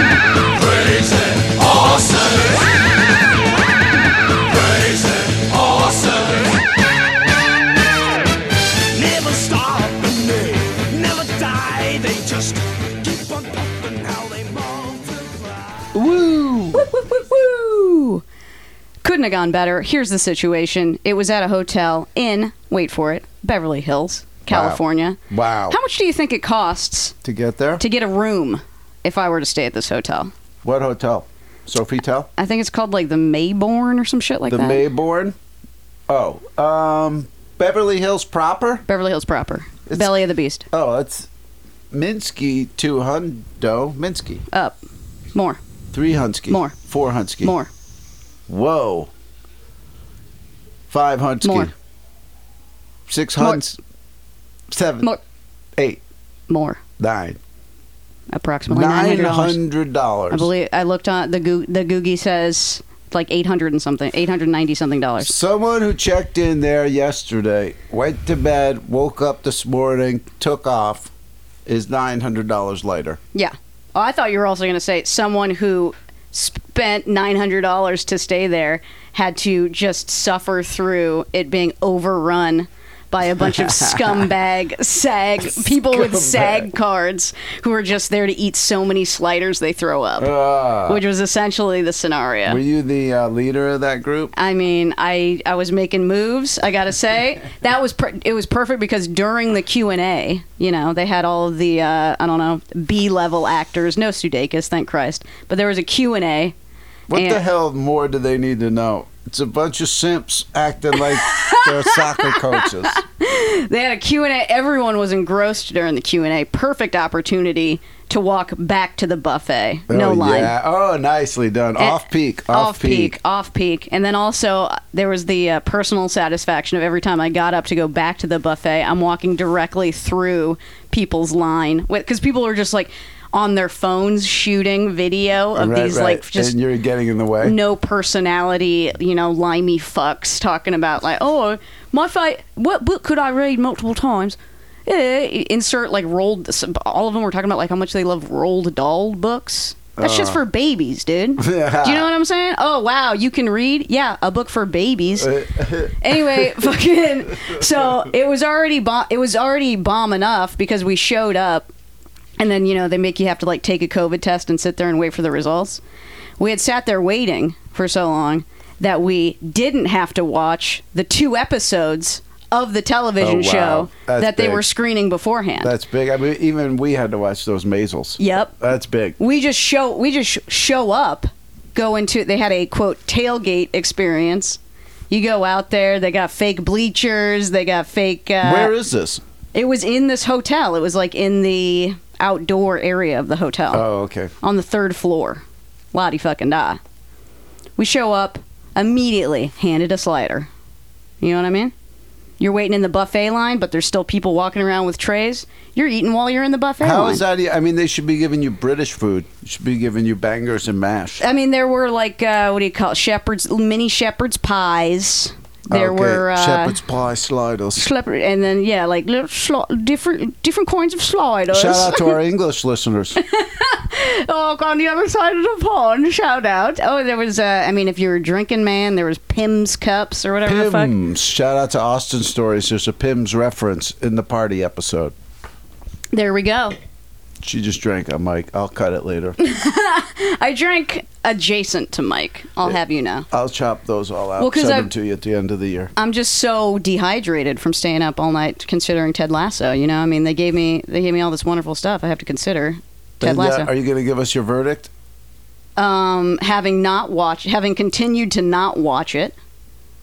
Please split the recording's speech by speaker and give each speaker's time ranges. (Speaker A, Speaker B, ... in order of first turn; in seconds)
Speaker A: 0.5-2.8, 4.5-6.6, 8.9-15.9
Speaker B: 15.9-16.9, 24.5-25.8, 27.2-27.8, 30.6-32.3, 34.5-35.4, 36.1-38.9, 39.9-40.1, 40.7-41.3, 41.9-44.5, 45.9-47.5, 48.5-49.1, 50.9-51.7, 53.1-53.8, 54.7-55.1, 57.0-57.4, 58.7-60.5, 65.2-71.1, 71.7-73.2, 83.5-84.2, 85.5-86.7, 90.2-91.0, 92.5-94.3, 107.1-113.0, 119.9-123.2, 135.6-137.6, 150.0-150.4, 151.4-152.1, 155.2-156.7, 173.2-174.6, 175.6-179.2, 188.4-189.2, 193.7-194.3, 206.8-211.2, 215.7-217.9, 221.5-223.2, 230.4-235.1, 237.4-239.4, 243.3-245.9, 253.2-254.9
Speaker C: 16.7-18.2, 19.0-25.2, 25.7-27.1, 27.8-30.3, 32.4-34.9, 38.9-40.6, 45.3-45.6, 46.5-46.8, 47.4-47.7, 51.4-51.7, 56.5-56.8, 58.3-59.6, 60.3-65.3, 73.3-90.3, 90.8-92.6, 94.3-106.5, 107.1-107.4, 111.0-120.5, 121.8-136.6, 137.4-161.7, 162.4-165.8, 166.4-175.7, 178.2-178.5, 179.2-184.6, 185.1-188.7, 189.5-193.8, 194.4-196.8, 197.8-200.5, 201.2-201.7, 202.4-207.2, 211.2-216.8, 217.8-222.2, 223.2-230.9, 236.1-236.8, 239.4-243.3, 244.4-244.9, 246.0-253.7, 255.8-259.4